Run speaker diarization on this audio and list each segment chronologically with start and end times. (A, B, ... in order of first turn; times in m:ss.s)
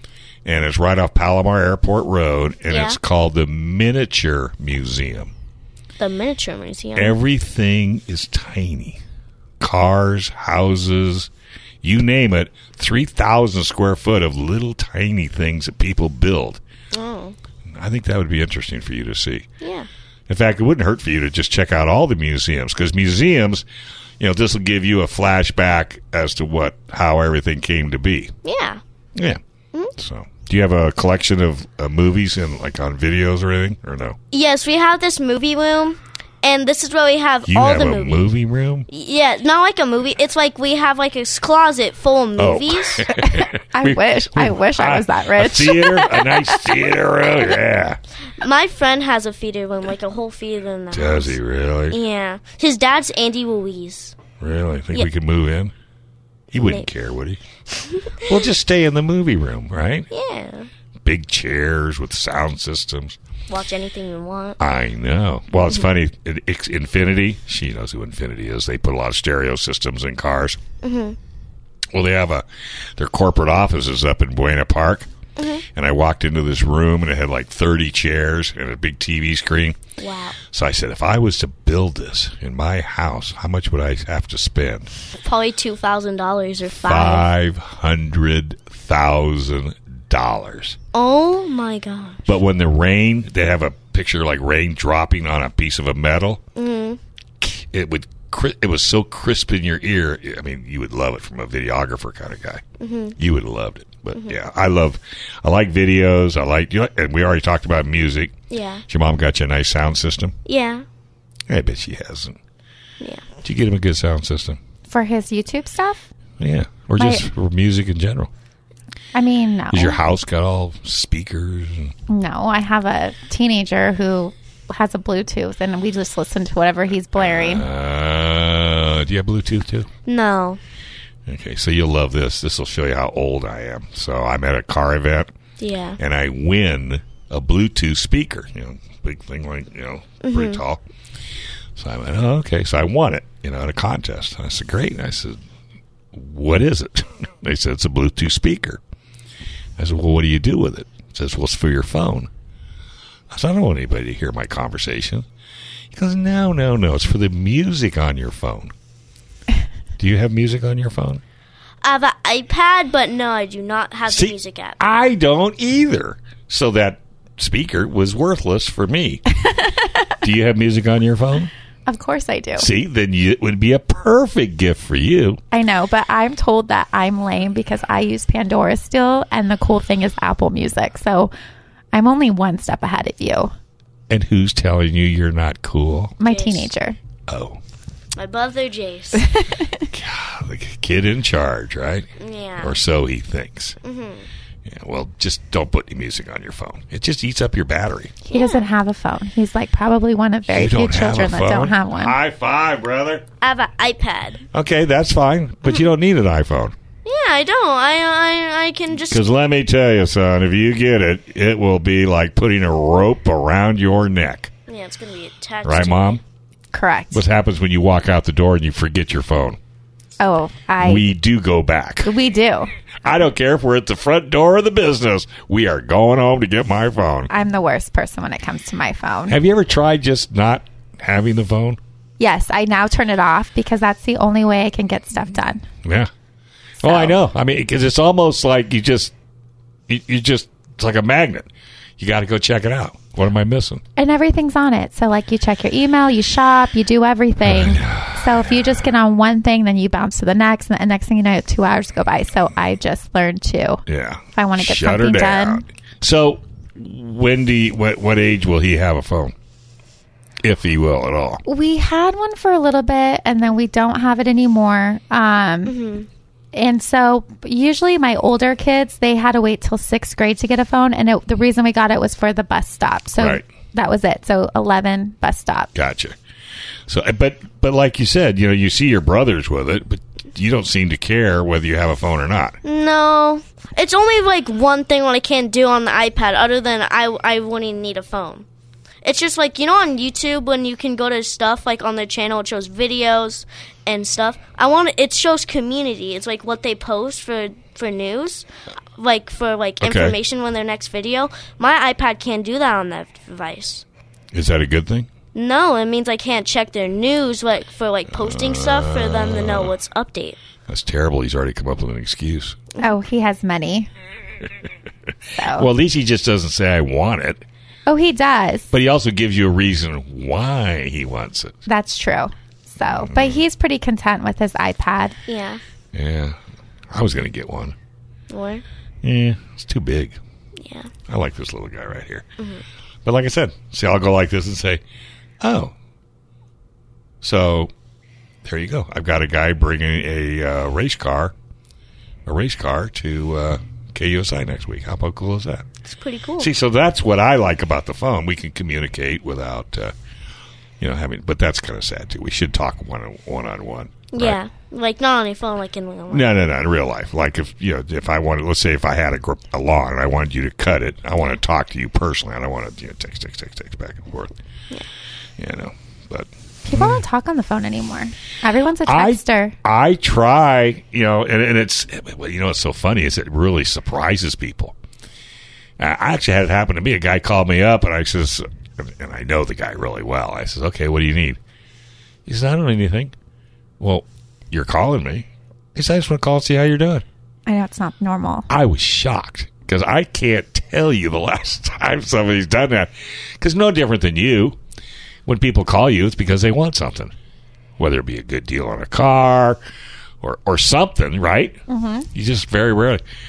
0:00.4-0:05.3 A
0:02.7-0:03.0 B
0:06.0-0:07.2 B
0:07.0-0:09.0 A
0:09.6-0:11.3 A
0:11.8-0:16.6 A
0:16.9-0:17.4 B
0:17.7-0:19.5 A
0:19.6-0:19.9 B
0:20.3-0:23.6 A
0:24.2-0:28.3 A
0:28.4-0:28.8 B
0:30.0-0:34.2 A
0:34.3-0:38.3 B
0:37.5-0:38.9 A
0:38.9-0:43.1 B
0:42.4-0:48.0 A
0:43.2-0:46.8 C
0:48.4-0:51.4 B
0:50.9-0:52.0 A
0:51.9-0:54.2 B
0:54.4-0:55.7 A
0:56.5-0:57.4 A
0:56.6-0:56.9 B
0:57.7-0:58.4 B
0:58.2-1:00.1 A
1:00.1-1:00.7 B
1:01.0-1:03.2 A
1:03.5-1:04.6 B
1:04.6-1:10.6 A
1:10.8-1:11.2 B
1:11.9-1:12.4 A
1:13.0-1:15.1 A
1:15.4-1:15.6 B
1:15.7-1:19.8 A
1:20.0-1:20.4 B
1:20.5-1:24.9 A
1:25.2-1:27.3 B
1:26.8-1:30.8 A
1:30.9-1:32.3 B
1:32.3-1:36.4 A
1:36.6-1:37.0 B
1:37.4-1:42.6 A
1:42.8-1:43.2 B
1:43.2-1:48.3 A
1:48.5-1:48.8 B
1:48.9-1:50.3 A
1:50.5-1:50.9 B
1:51.5-1:52.4 A
1:53.0-1:53.2 B
1:53.4-1:54.6 A
1:54.9-1:56.1 C
1:56.4-1:58.3 A
1:57.0-1:57.3 C
1:59.1-2:00.0 C
1:59.7-2:01.9 A
2:02.1-2:07.7 C
2:07.2-2:09.9 A
2:10.1-2:10.6 B
2:11.3-2:15.3 A
2:15.6-2:16.0 B
2:16.0-2:20.8 A
2:20.2-2:20.6 B
2:21.8-2:25.4 A
2:26.1-2:28.8 A
2:29.8-2:32.3 A
2:33.3-2:35.2 A
2:35.9-2:38.7 A
2:40.0-2:41.2 A
2:41.8-2:44.8 B
2:44.1-2:49.2 A
2:50.2-2:51.5 A
2:51.9-2:52.7 C
2:52.6-2:55.4 A
2:55.5-3:01.3 C
3:01.9-3:03.5 C
3:04.1-3:06.2 A
3:06.2-3:07.0 C
3:06.2-3:06.7 B
3:07.3-3:07.6 A
3:08.2-3:09.4 B
3:09.9-3:12.1 A
3:12.2-3:12.8 B
3:12.6-3:13.8 A
3:13.8-3:14.3 B
3:14.7-3:18.1 A
3:18.3-3:18.7 B
3:18.3-3:22.2 C
3:20.5-3:23.2 A
3:23.4-3:24.4 B
3:24.5-3:26.8 A
3:27.0-3:29.2 B
3:29.1-3:34.5 A
3:34.7-3:36.2 B
3:35.6-3:36.2 A
3:36.7-3:37.2 C
3:37.1-3:39.6 A
3:40.2-3:41.1 C
3:40.8-3:42.1 A
3:42.0-3:42.7 C
3:43.0-3:47.3 A
3:47.3-3:49.4 C
3:49.3-3:51.8 A
3:52.2-3:55.6 C
3:55.8-3:56.1 A
3:56.8-3:57.2 C
3:56.8-3:59.1 A
3:59.9-4:03.8 A
4:04.0-4:13.8 C
4:07.4-4:08.8 A
4:13.9-4:19.3 A
4:14.4-4:15.6 C
4:20.4-4:21.4 A
4:21.5-4:25.8 C
4:25.7-4:26.1 B
4:26.5-4:35.7 C
4:33.2-4:33.4 A
4:35.8-4:36.2 A
4:36.9-4:42.6 A
4:42.6-4:48.5 B
4:49.0-5:03.8 B
4:59.8-5:00.2 A
5:04.3-5:05.1 A
5:05.3-5:10.4 B
5:08.1-5:09.7 A
5:10.7-5:12.6 A
5:12.8-5:13.9 C
5:15.4-5:15.7 C
5:15.5-5:17.4 A
5:17.9-5:18.7 C
5:18.7-5:21.6 A
5:21.7-5:25.2 C
5:22.8-5:23.4 A
5:25.3-5:25.6 B
5:25.9-5:26.4 A
5:26.9-5:27.8 A
5:28.3-5:28.6 B
5:29.0-5:30.2 A
5:30.6-5:30.9 B
5:31.1-5:32.2 A
5:32.4-5:32.6 B
5:33.0-5:34.8 A
5:35.4-5:35.7 A
5:37.2-5:37.7 A
5:38.4-5:41.3 A
5:42.3-5:45.7 A
5:45.8-5:46.5 B
5:46.4-5:49.9 A
5:50.8-5:54.4 A
5:54.1-5:56.3 B
5:56.1-6:04.3 A
6:05.4-6:07.0 A
6:06.6-6:09.6 C
6:08.9-6:14.8 A
6:15.8-6:21.4 A
6:22.3-6:23.1 A
6:23.8-6:27.0 A
6:27.5-6:28.5 C
6:28.5-6:34.6 A
6:35.3-6:37.1 A
6:37.8-6:39.6 A
6:40.2-6:41.6 A
6:41.7-6:42.1 C
6:42.1-6:43.0 A